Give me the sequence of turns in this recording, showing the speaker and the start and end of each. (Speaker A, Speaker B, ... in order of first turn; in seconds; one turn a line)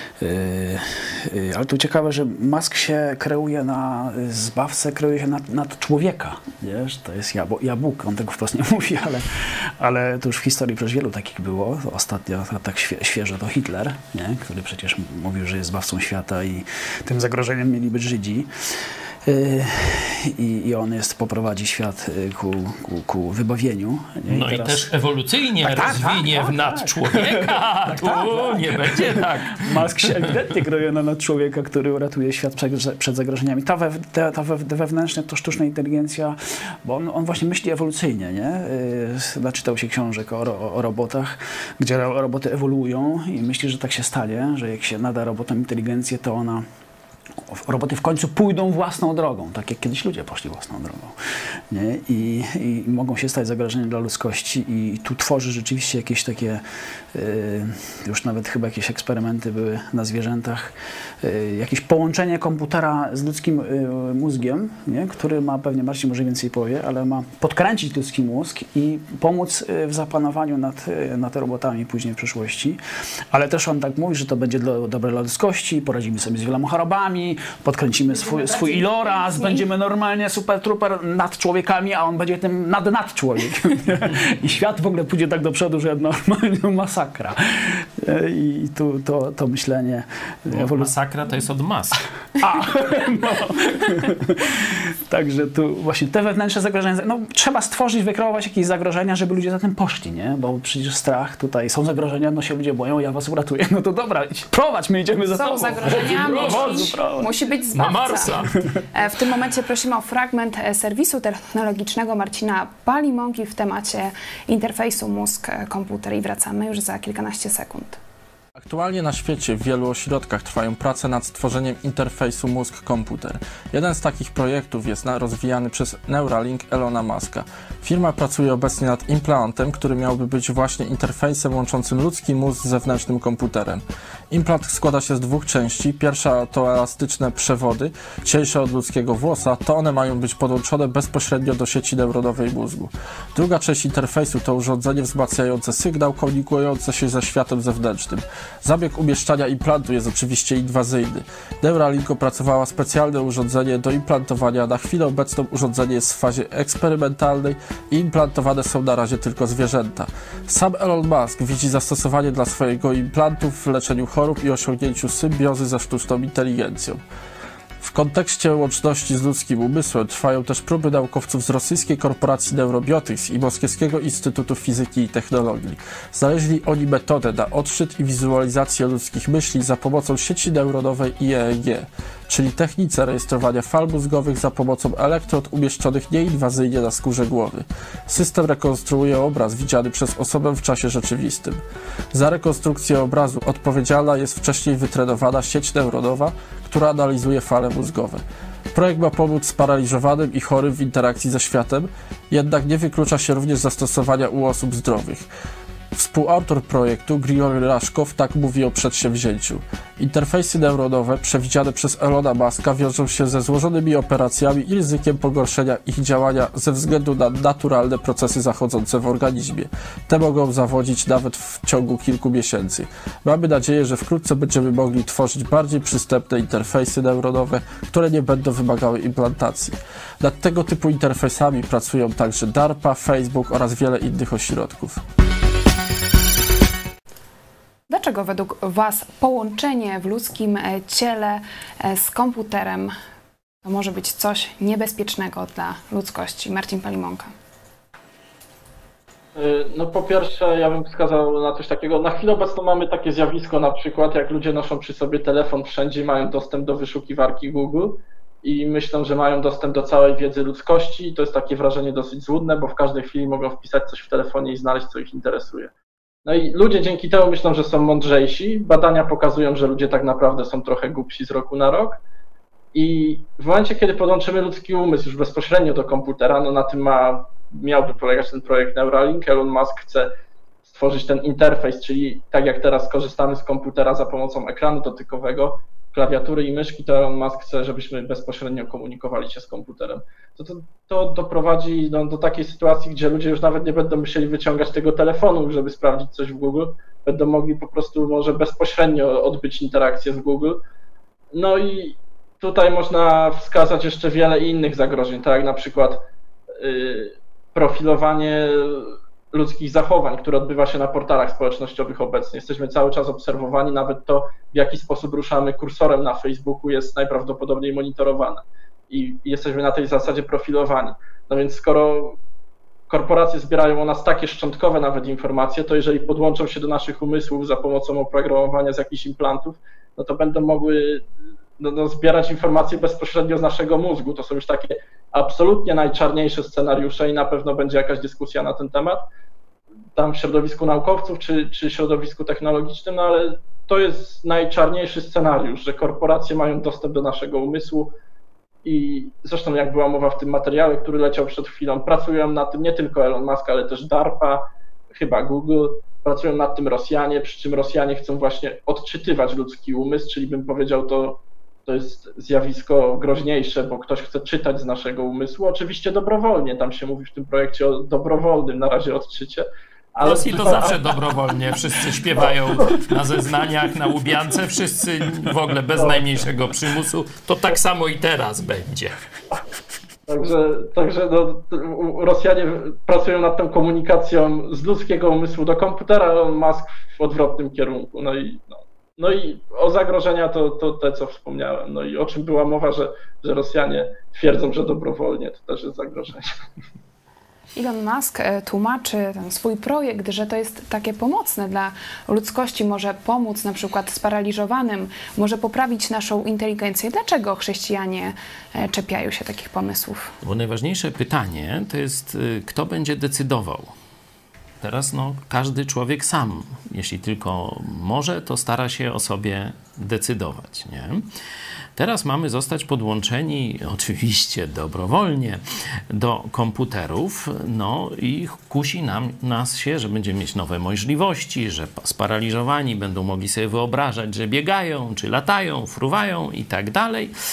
Speaker A: 0.2-24.9
Speaker B: 24.3-30.2
Speaker A: 25.6-46.6
Speaker A: 47.5-51.2
Speaker A: 51.7-72.8
Speaker A: 73.3-90.9
Speaker C: 78.3-79.6
Speaker B: 90.5-92.1
Speaker A: 92.4-107.3
Speaker C: 105.3-108.3
Speaker B: 105.8-107.0
Speaker B: 107.7-108.6
Speaker C: 108.9-118.0
Speaker D: 118.6-167.0
Speaker D: 167.8-191.6
Speaker D: 192.1-198.2
Speaker D: 198.7-205.3
Speaker D: 205.9-235.0
Speaker C: 237.9-242.9
Speaker C: 243.6-247.3
Speaker E: 249.3-265.7
Speaker E: 266.2-272.0
Speaker E: 272.7-280.1
Speaker E: 280.6-300.6
Speaker E: 301.3-306.0
Speaker E: 306.6-322.2
Speaker E: 322.9-331.1
Speaker E: 331.6-339.1
Speaker E: 339.9-347.9
Speaker E: 348.6-371.0
Speaker B: 370.0-379.0
Speaker E: 371.8-372.8
Speaker E: 375.8-376.0
Speaker E: 380.1-396.4
Speaker C: 397.6-410.1
Speaker B: 410.2-413.7
Speaker B: 414.6-421.1
Speaker B: 421.8-437.1